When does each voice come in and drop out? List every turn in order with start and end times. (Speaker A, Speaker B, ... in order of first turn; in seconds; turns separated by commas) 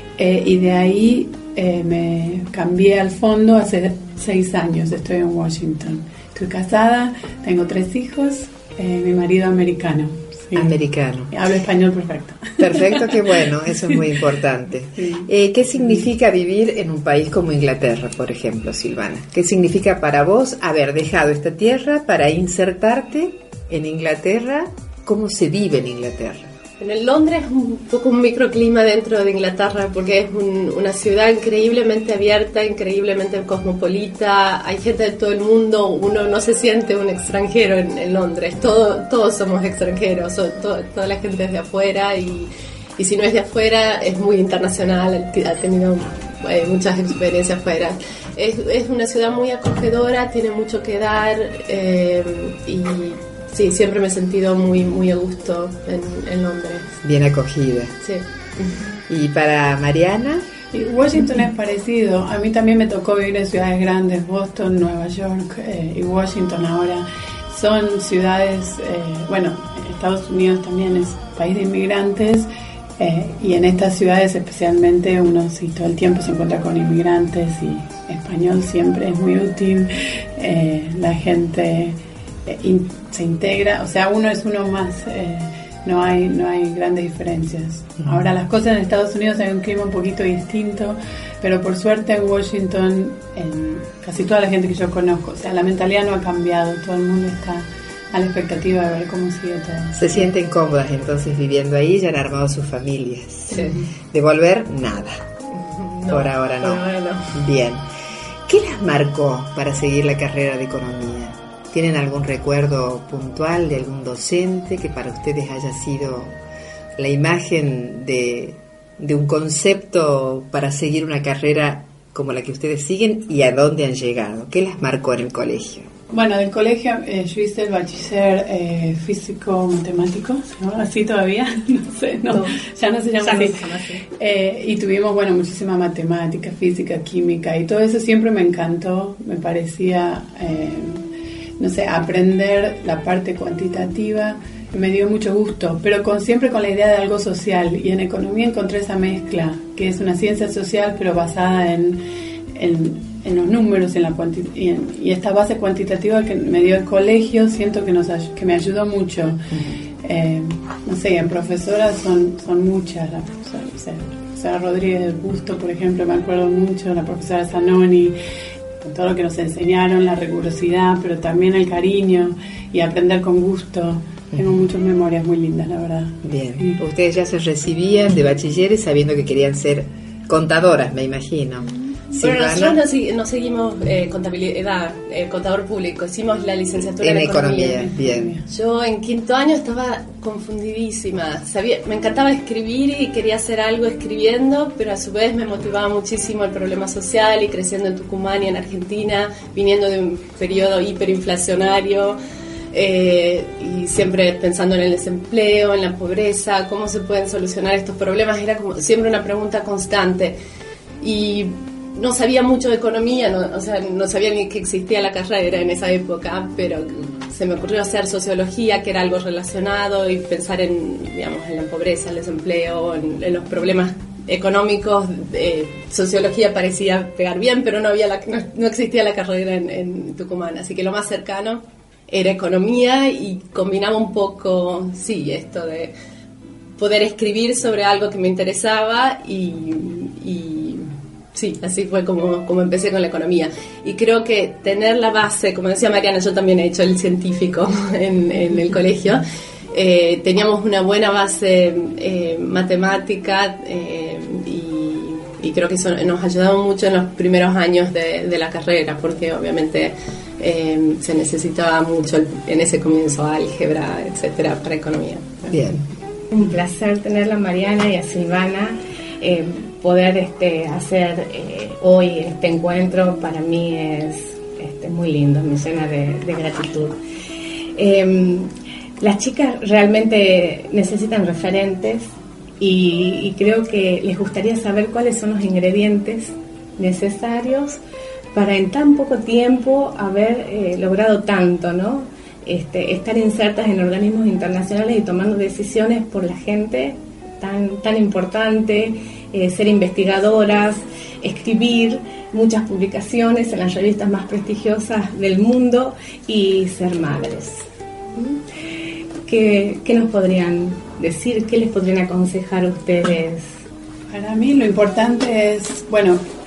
Speaker A: 0.2-10.7, Speaker B: 10.5-11.3, Speaker A: 11.3-13.2, Speaker B: 12.6-26.5, Speaker A: 15.0-15.3, Speaker C: 26.8-56.9, Speaker B: 57.0-57.9, Speaker C: 58.0-58.8, Speaker B: 59.1-60.4, Speaker A: 60.7-72.5, Speaker A: 73.0-100.2, Speaker B: 99.9-105.2, Speaker C: 103.5-103.8, Speaker C: 105.5-107.3, Speaker B: 106.1-107.8, Speaker B: 108.5-116.3, Speaker B: 117.0-125.9, Speaker A: 126.1-141.0, Speaker D: 133.2-134.0, Speaker A: 141.6-152.0, Speaker A: 152.5-168.2, Speaker A: 168.8-176.8, Speaker B: 176.2-182.8, Speaker C: 182.1-187.9, Speaker B: 187.0-188.3, Speaker A: 187.8-188.4, Speaker C: 188.5-202.2, Speaker C: 202.7-210.4, Speaker C: 211.0-235.9, Speaker C: 236.8-265.6, Speaker B: 265.5-265.8, Speaker D: 266.3-276.9, Speaker D: 277.8-278.5, Speaker D: 279.0-287.8, Speaker D: 288.3-308.4, Speaker D: 309.2-313.6, Speaker A: 314.1-316.2